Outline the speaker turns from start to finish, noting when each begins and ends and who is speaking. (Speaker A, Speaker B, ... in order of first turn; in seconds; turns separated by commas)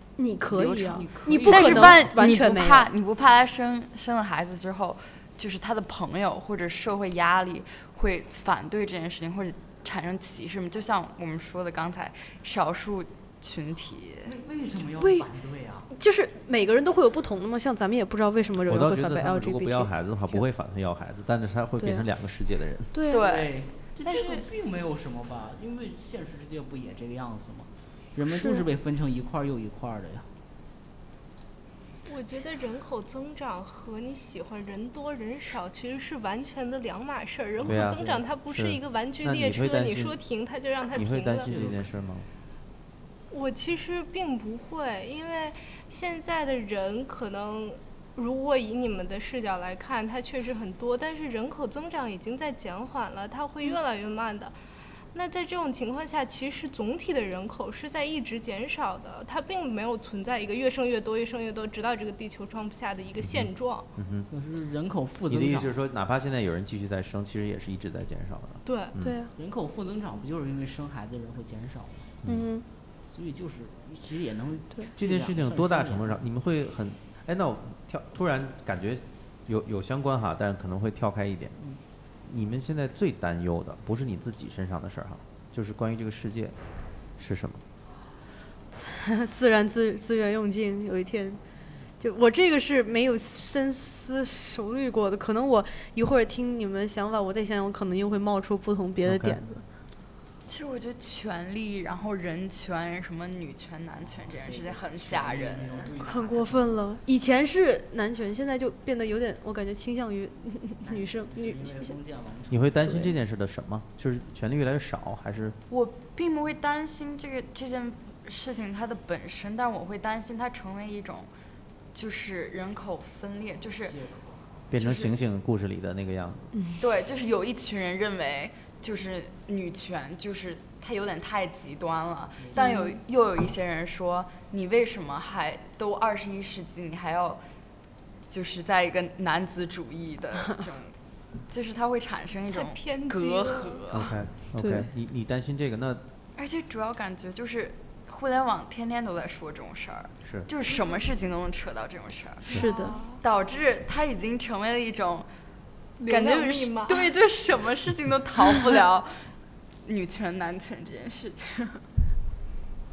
Speaker A: 0.2-2.9, Speaker B: 0.5-14.3, Speaker C: 0.7-2.4, Speaker C: 14.2-15.9, Speaker A: 15.0-15.3, Speaker A: 15.9-20.4, Speaker D: 18.6-22.9, Speaker A: 22.9-23.3, Speaker B: 23.1-24.4, Speaker C: 23.1-30.3, Speaker A: 28.3-28.7, Speaker E: 32.1-41.5, Speaker C: 37.6-38.0, Speaker D: 37.6-40.2, Speaker D: 40.9-42.3, Speaker C: 41.5-42.0, Speaker E: 43.3-54.5, Speaker E: 55.1-63.9, Speaker D: 63.2-64.3, Speaker C: 64.3-65.8, Speaker D: 65.3-69.2, Speaker E: 68.7-69.0, Speaker A: 69.0-69.3, Speaker C: 69.4-72.1, Speaker A: 72.3-72.7, Speaker C: 73.0-76.2, Speaker D: 75.0-81.6, Speaker D: 82.2-86.5, Speaker D: 87.2-87.6, Speaker A: 88.7-91.4, Speaker A: 92.0-99.6, Speaker D: 99.0-99.4, Speaker B: 100.5-105.9, Speaker C: 104.0-106.9, Speaker A: 106.0-111.9, Speaker C: 110.8-113.0, Speaker D: 112.5-115.6, Speaker A: 112.8-113.2, Speaker B: 115.7-121.3, Speaker B: 121.9-124.0, Speaker C: 123.8-124.6, Speaker D: 124.7-126.5, Speaker B: 124.8-125.2, Speaker A: 126.5-126.8, Speaker B: 126.8-137.4, Speaker C: 132.4-132.8, Speaker A: 132.6-133.0, Speaker B: 138.3-140.9, Speaker B: 141.5-144.2, Speaker E: 142.5-143.8, Speaker D: 143.9-146.0, Speaker A: 144.6-144.9, Speaker B: 146.4-155.3, Speaker D: 150.2-150.5, Speaker A: 152.5-153.0, Speaker E: 152.5-153.2, Speaker E: 156.0-157.1, Speaker B: 156.1-159.3, Speaker B: 159.8-161.8